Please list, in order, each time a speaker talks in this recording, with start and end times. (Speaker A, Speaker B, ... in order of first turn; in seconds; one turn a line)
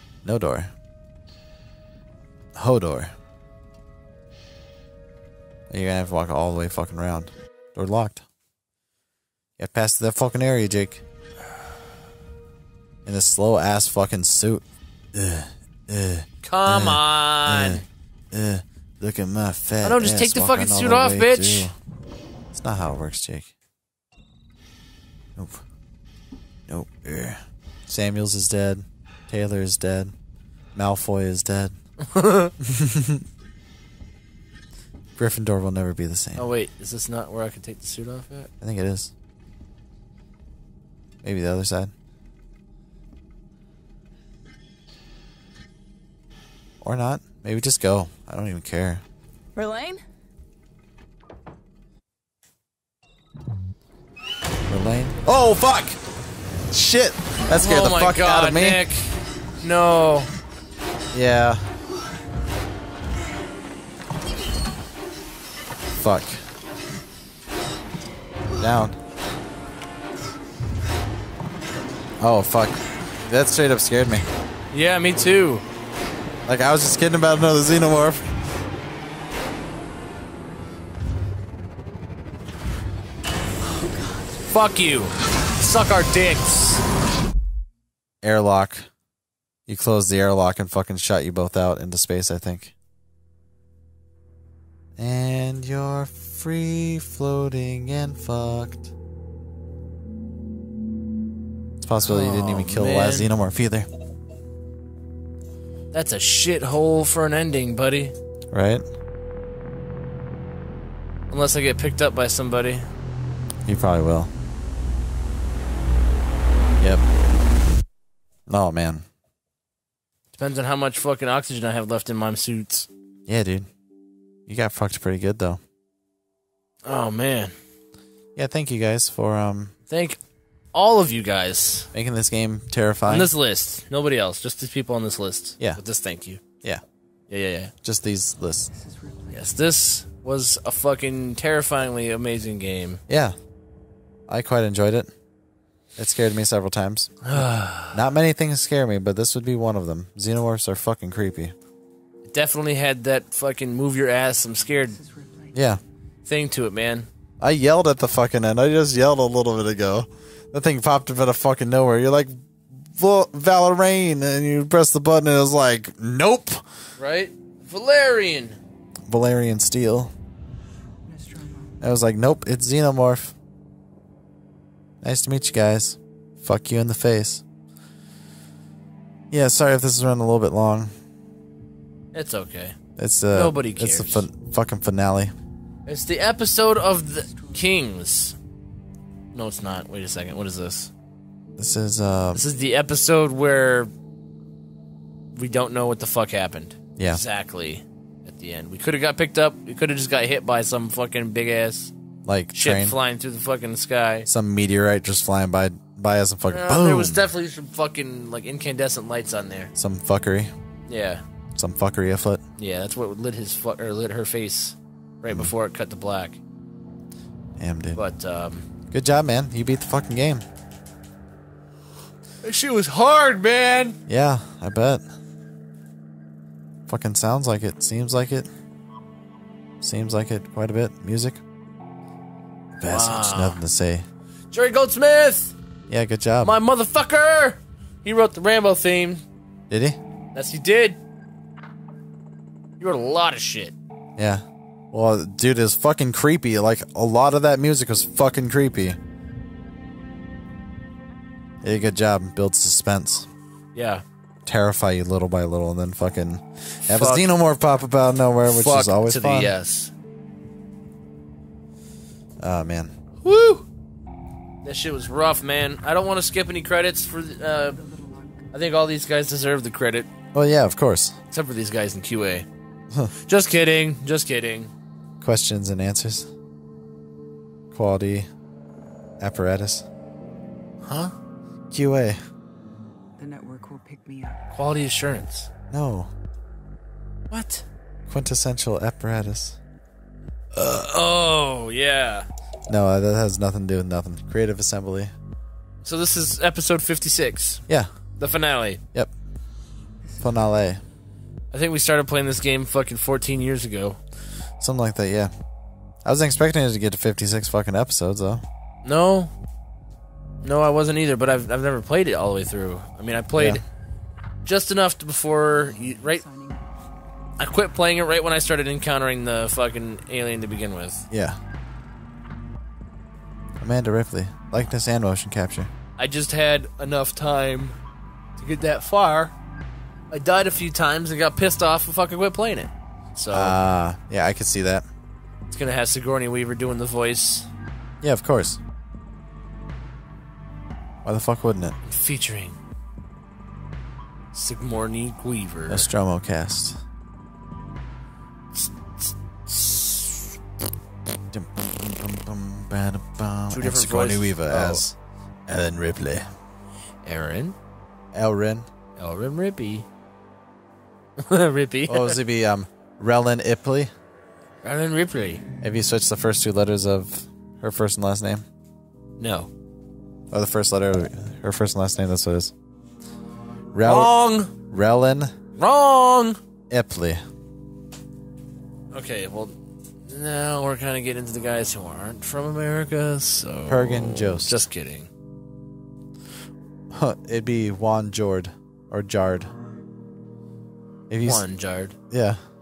Speaker A: 0.2-0.7
Speaker A: 2.5-3.1
Speaker A: 5.7-8.2
Speaker A: 9.6-11.0
Speaker A: 13.0-21.7
Speaker B: 16.4-17.8
Speaker B: 19.8-21.7
Speaker A: 22.5-23.5
Speaker A: 25.4-25.6
Speaker A: 26.7-30.1
Speaker A: 30.7-31.8
Speaker B: 32.0-32.5
Speaker A: 32.6-33.2
Speaker A: 35.1-36.5
Speaker B: 36.4-38.5
Speaker A: 38.6-39.1
Speaker A: 41.2-41.9
Speaker A: 46.8-49.0
Speaker C: 49.5-50.0
Speaker A: 54.7-56.0
Speaker A: 56.7-58.8
Speaker B: 57.5-60.3
Speaker A: 61.1-61.6
Speaker A: 65.9-66.4
Speaker A: 68.6-69.0
Speaker A: 72.2-74.2
Speaker B: 74.7-75.6
Speaker A: 76.5-78.3
Speaker B: 84.4-86.8
Speaker A: 88.2-88.9
Speaker A: 89.7-92.7
Speaker A: 95.0-98.9
Speaker A: 101.8-103.9
Speaker B: 102.0-103.3
Speaker B: 105.9-108.1
Speaker A: 108.5-108.8
Speaker B: 111.3-112.9
Speaker A: 113.7-114.3
Speaker A: 118.5-119.0
Speaker B: 120.3-122.9
Speaker A: 123.3-123.7
Speaker A: 124.5-125.6
Speaker B: 126.8-127.5
Speaker A: 128.3-129.7
Speaker B: 129.9-130.2
Speaker B: 130.7-131.9
Speaker A: 131.9-133.3
Speaker B: 133.1-136.4
Speaker B: 137.3-137.7
Speaker A: 137.8-138.7
Speaker C: 138.7-139.5
Speaker B: 139.3-143.0
Speaker A: 143.1-143.3
Speaker A: 144.3-145.1
Speaker A: 146.0-151.5
Speaker B: 147.2-148.0
Speaker B: 152.3-155.0
Speaker C: 154.9-155.5
Speaker A: 155.5-155.8
Speaker B: 156.2-157.1
Speaker A: 157.4-166.6
Speaker B: 167.0-168.6
Speaker A: 169.1-170.1
Speaker C: 171.1-171.7
Speaker A: 171.8-173.3
Speaker A: 175.0-177.4
Speaker A: 179.3-180.9
Speaker B: 182.1-182.8
Speaker A: 183.0-185.3
Speaker B: 183.3-184.3
Speaker B: 185.8-188.3
Speaker B: 189.3-190.9
Speaker A: 191.6-192.4
Speaker B: 192.3-193.9
Speaker B: 195.3-201.9
Speaker A: 197.0-197.2
Speaker A: 202.2-203.0
Speaker B: 202.5-204.3
Speaker A: 204.3-207.3
Speaker B: 206.5-209.7
Speaker A: 209.8-210.5
Speaker B: 210.9-211.2
Speaker A: 211.6-212.4
Speaker B: 212.6-216.4
Speaker A: 217.6-218.0
Speaker B: 217.9-218.7
Speaker A: 218.9-220.4
Speaker B: 222.4-224.0
Speaker A: 224.1-225.0
Speaker A: 226.9-228.5
Speaker A: 229.8-231.4
Speaker A: 232.8-234.1
Speaker B: 232.8-233.6
Speaker B: 234.5-235.6
Speaker A: 235.9-236.6
Speaker B: 236.4-239.2
Speaker A: 239.7-240.0
Speaker B: 240.3-241.0
Speaker B: 242.8-243.7
Speaker A: 244.2-249.0
Speaker A: 251.6-253.3
Speaker B: 253.7-254.0
Speaker A: 254.4-259.5
Speaker B: 256.9-257.3
Speaker B: 258.4-259.9
Speaker A: 262.4-262.9
Speaker B: 263.2-263.6
Speaker B: 264.6-267.8
Speaker C: 267.7-268.4
Speaker B: 268.5-270.1
Speaker A: 270.3-271.2
Speaker B: 271.3-272.5
Speaker B: 273.2-274.7
Speaker A: 275.2-276.3
Speaker A: 277.7-278.3
Speaker A: 279.2-279.9
Speaker B: 280.8-281.1
Speaker A: 281.7-282.2
Speaker C: 283.2-284.4
Speaker B: 284.5-285.5
Speaker A: 285.7-286.1
Speaker B: 287.3-287.6
Speaker A: 288.1-289.6
Speaker B: 290.5-292.3
Speaker A: 292.7-295.1
Speaker B: 295.8-297.6
Speaker B: 298.2-298.8
Speaker A: 300.2-300.8
Speaker B: 301.5-304.0
Speaker A: 304.6-305.3
Speaker A: 306.0-308.4
Speaker B: 308.8-309.3
Speaker B: 310.4-313.6
Speaker A: 313.4-313.6
Speaker B: 314.4-316.2
Speaker C: 315.6-316.7
Speaker B: 317.4-321.1
Speaker A: 321.1-321.4
Speaker A: 323.6-325.7
Speaker B: 326.0-327.8
Speaker B: 328.4-329.3
Speaker B: 330.1-333.6
Speaker A: 333.3-334.9
Speaker B: 335.5-337.5
Speaker A: 338.0-338.6
Speaker A: 341.0-341.8
Speaker B: 341.8-342.6
Speaker B: 344.3-345.9
Speaker A: 345.7-346.8
Speaker B: 348.5-350.4
Speaker A: 351.3-354.9
Speaker B: 353.5-354.8
Speaker A: 355.5-356.3
Speaker B: 357.0-357.6
Speaker A: 358.1-358.7
Speaker B: 359.0-359.9
Speaker B: 361.2-362.2
Speaker A: 361.9-363.9
Speaker B: 364.6-365.4
Speaker A: 365.6-368.4
Speaker B: 369.2-369.5
Speaker A: 370.3-372.5
Speaker A: 373.7-374.1
Speaker B: 373.8-374.5
Speaker A: 374.7-375.3
Speaker B: 375.6-376.4
Speaker A: 376.7-377.2
Speaker B: 378.9-379.5
Speaker B: 380.1-385.1
Speaker A: 383.7-384.6
Speaker A: 386.9-389.5
Speaker A: 391.1-391.4
Speaker B: 391.2-391.9
Speaker A: 392.1-392.4